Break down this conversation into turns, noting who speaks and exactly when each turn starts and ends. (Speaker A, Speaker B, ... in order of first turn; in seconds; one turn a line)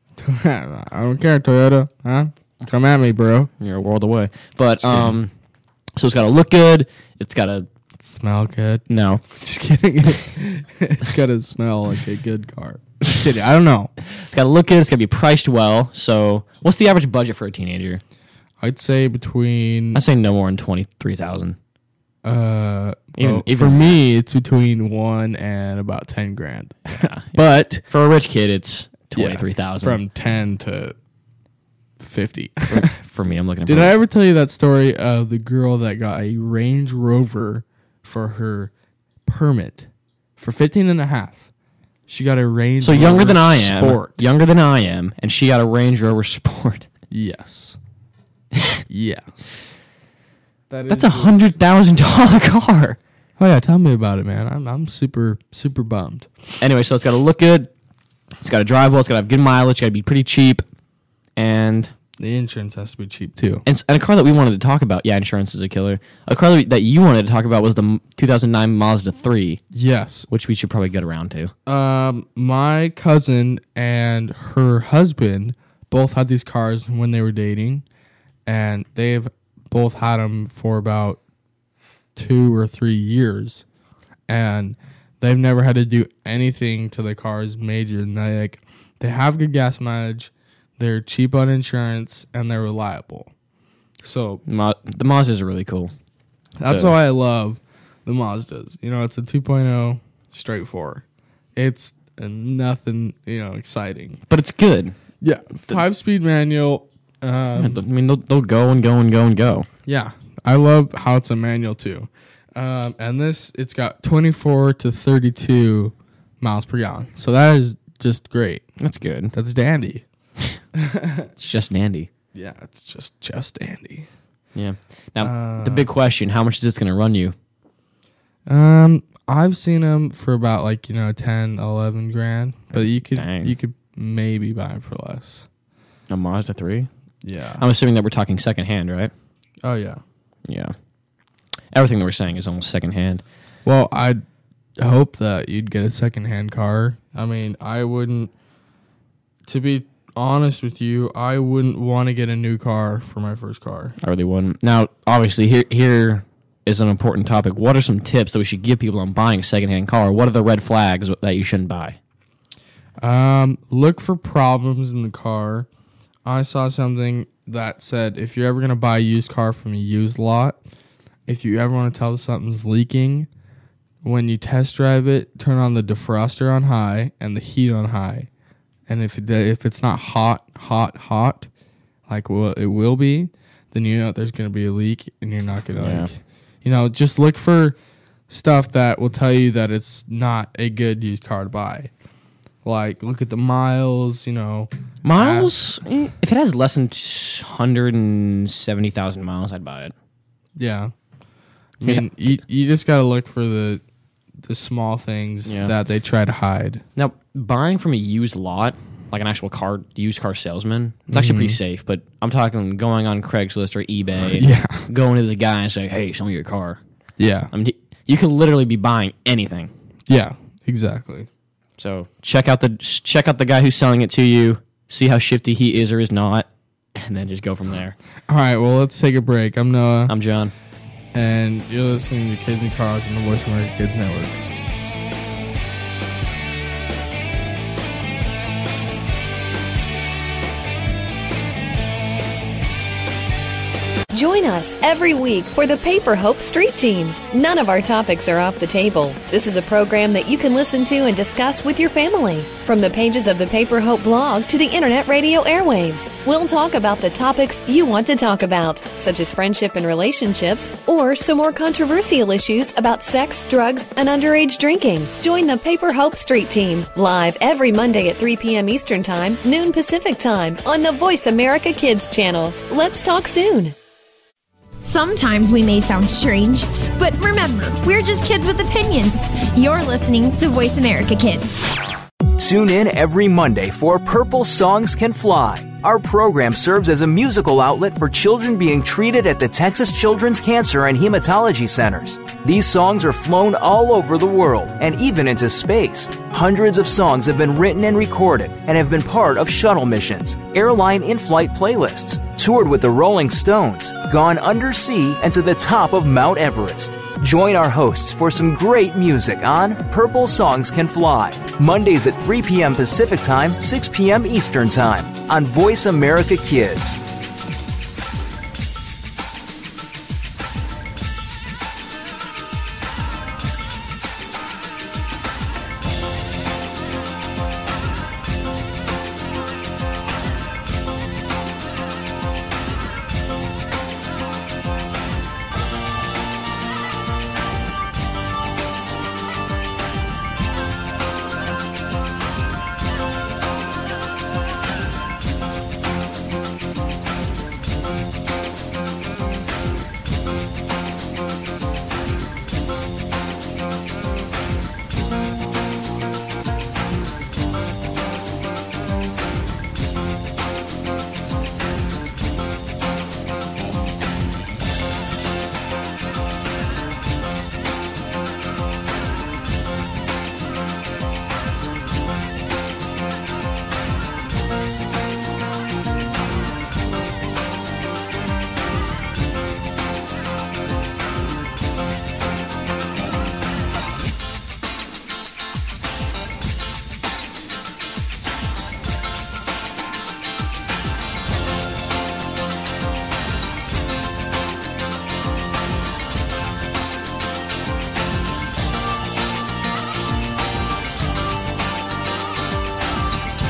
Speaker A: 0.2-3.5
Speaker B: 3.6-5.3
Speaker A: 4.8-5.2
Speaker B: 6.0-7.7
Speaker A: 8.1-13.9
Speaker B: 8.9-9.2
Speaker B: 14.1-18.0
Speaker A: 18.6-20.0
Speaker B: 19.9-21.6
Speaker A: 22.2-27.8
Speaker B: 23.2-24.0
Speaker B: 26.9-30.0
Speaker A: 29.1-30.9
Speaker A: 32.0-32.9
Speaker B: 32.7-34.0
Speaker A: 33.7-38.7
Speaker A: 39.3-41.5
Speaker A: 42.1-44.2
Speaker B: 42.8-46.9
Speaker A: 47.1-47.8
Speaker B: 48.5-48.8
Speaker A: 48.9-49.3
Speaker A: 50.7-51.5
Speaker B: 50.9-53.0
Speaker A: 53.4-56.3
Speaker B: 56.6-57.7
Speaker B: 58.4-60.6
Speaker B: 61.4-61.9
Speaker A: 62.2-63.6
Speaker B: 63.7-69.6
Speaker A: 69.7-70.3
Speaker B: 70.3-71.5
Speaker A: 71.7-77.8
Speaker A: 78.5-81.2
Speaker A: 82.2-83.6
Speaker A: 84.3-93.3
Speaker A: 94.0-94.4
Speaker B: 94.5-95.9
Speaker A: 96.6-101.0
Speaker B: 96.7-96.9
Speaker A: 101.6-104.2
Speaker B: 104.3-105.0
Speaker A: 105.2-107.8
Speaker B: 107.6-109.7
Speaker A: 109.9-118.7
Speaker B: 118.8-119.3
Speaker A: 119.3-120.0
Speaker A: 120.8-121.3
Speaker B: 121.4-122.1
Speaker A: 122.3-124.1
Speaker B: 124.5-127.3
Speaker A: 125.2-125.9
Speaker A: 128.5-135.5
Speaker B: 132.7-133.6
Speaker B: 136.1-136.9
Speaker A: 137.2-137.6
Speaker B: 137.6-139.1
Speaker A: 139.6-140.0
Speaker B: 140.5-140.7
Speaker B: 141.7-143.2
Speaker A: 143.7-144.2
Speaker A: 144.8-148.3
Speaker A: 149.5-153.9
Speaker B: 154.0-162.0
Speaker A: 163.0-165.7
Speaker A: 166.2-170.6
Speaker A: 171.3-173.3
Speaker A: 174.0-178.3
Speaker A: 178.9-181.5
Speaker A: 182.1-187.8
Speaker B: 185.8-186.1
Speaker A: 188.3-191.9
Speaker A: 192.6-195.5
Speaker B: 195.0-199.9
Speaker A: 200.6-200.9
Speaker A: 201.8-203.8
Speaker B: 201.8-202.1
Speaker A: 204.4-206.8
Speaker B: 205.5-205.7
Speaker B: 207.0-216.8
Speaker A: 211.1-211.6
Speaker A: 214.3-214.9
Speaker A: 217.2-217.5
Speaker B: 217.5-219.7
Speaker A: 220.1-221.3
Speaker B: 221.8-228.0
Speaker A: 228.3-230.1
Speaker B: 230.1-230.5
Speaker A: 231.1-234.4
Speaker C: 244.1-273.8
Speaker D: 274.8-281.7
Speaker E: 282.4-317.0